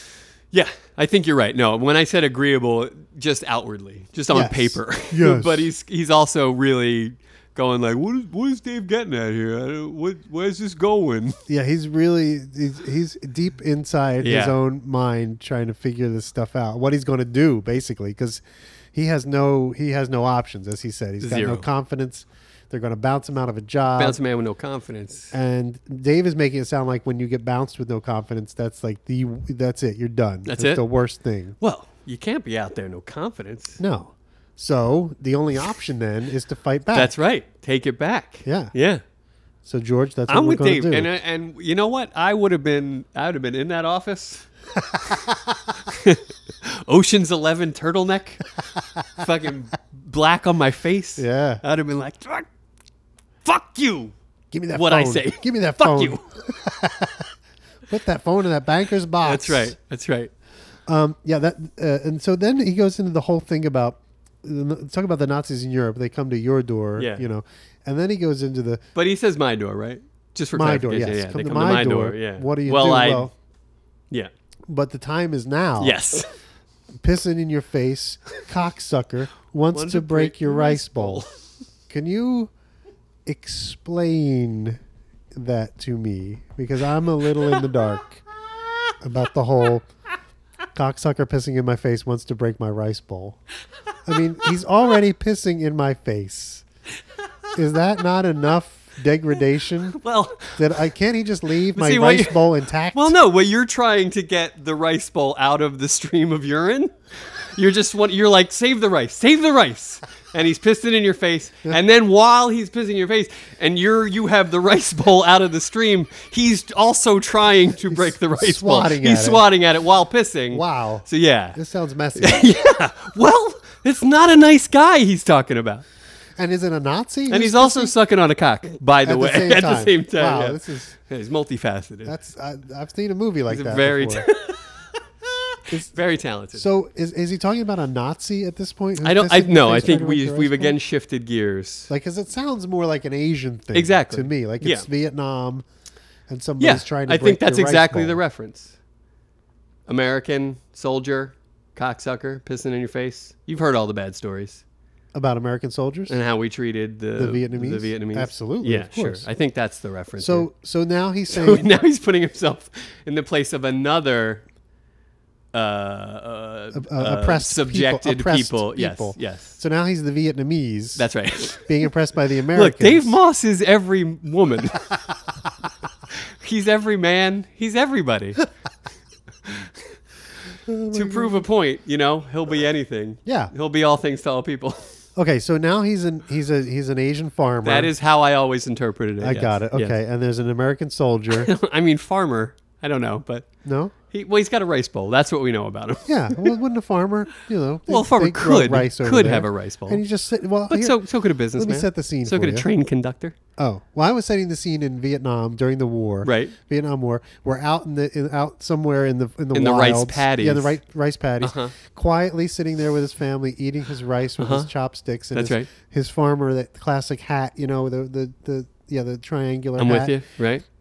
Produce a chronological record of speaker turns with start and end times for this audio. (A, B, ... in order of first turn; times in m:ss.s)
0:00.5-0:11.4 A
0:04.3-0:05.7 B
0:11.5-0:18.4 B
0:14.2-0:14.6 A
0:18.9-0:24.2 B
0:21.2-0:21.7 A
0:24.0-0:25.3 A
0:25.3-0:31.6 B
0:30.4-0:30.8 A
0:31.6-0:33.8 A
0:33.8-0:37.1 B
0:36.9-0:39.0 A
0:38.4-0:38.7 B
0:39.6-0:41.1 B
0:40.3-0:44.5 A
0:45.0-0:45.4 B
0:45.8-0:48.4 A
0:49.2-0:52.5 A
0:51.2-0:51.6 B
0:53.4-0:54.1 A
0:54.5-0:57.3 B
0:54.7-0:56.2 A
0:57.9-0:59.7 B
0:59.2-1:00.3 A
1:00.9-1:08.8 B
1:07.0-1:07.2 A
1:08.9-1:13.3 A
1:10.5-1:13.3 B
1:14.7-1:16.0 B
1:15.8-1:16.3 A
1:17.0-1:21.2 B
1:19.7-1:21.3 A
1:21.9-1:22.5 B
1:23.2-1:24.8 B
1:25.3-1:28.2 B
1:29.0-1:29.8 B
1:30.7-1:33.4 B
1:34.0-1:36.6 B
1:37.5-1:40.0 B
1:40.0-1:40.6 A
1:40.6-1:43.1 B
1:41.7-1:42.4 A
1:42.9-2:01.6 A
1:57.9-1:59.4 B
2:00.5-2:02.4 B
2:02.2-2:05.8 A
2:06.4-2:07.9 B
2:07.3-2:12.2 A
2:09.0-2:11.0 B
2:12.0-2:14.3 B
2:13.5-2:14.8 A
2:15.5-2:16.7 A
2:16.5-2:20.8 B
2:19.0-2:21.9 A
2:21.9-2:25.6 B
2:23.7-2:24.9 A
2:26.3-2:28.2 B
2:26.6-2:28.8 A
2:29.9-2:34.6 A
2:35.1-2:36.2 B
2:36.1-2:40.5 A
2:37.2-2:39.3 B
2:40.2-2:41.7 B
2:41.3-2:44.4 A
2:45.5-2:49.6 A
2:46.7-2:51.0 B
2:51.0-2:51.8 A
2:51.6-2:53.2 B
2:52.5-2:54.9 A
2:56.1-2:58.4 A
3:00.6-3:01.4 B
3:00.9-3:04.9 A
3:03.2-3:03.5 B
3:05.2-3:07.9 B
3:07.6-3:09.9 A
3:09.2-3:11.5 B
3:11.3-3:13.5 A
3:13.6-3:13.9 B
3:14.1-3:16.5 A
3:16.0-3:21.0 B
3:17.9-3:20.0 A
3:20.7-3:23.4 A
3:21.6-3:22.7 B
3:23.6-3:40.2 B
3:26.2-3:26.6 A
3:29.5-3:30.8 A
3:31.4-3:31.7 A
3:34.4-3:34.7 A
3:35.3-3:35.7 A
3:39.8-3:40.6 A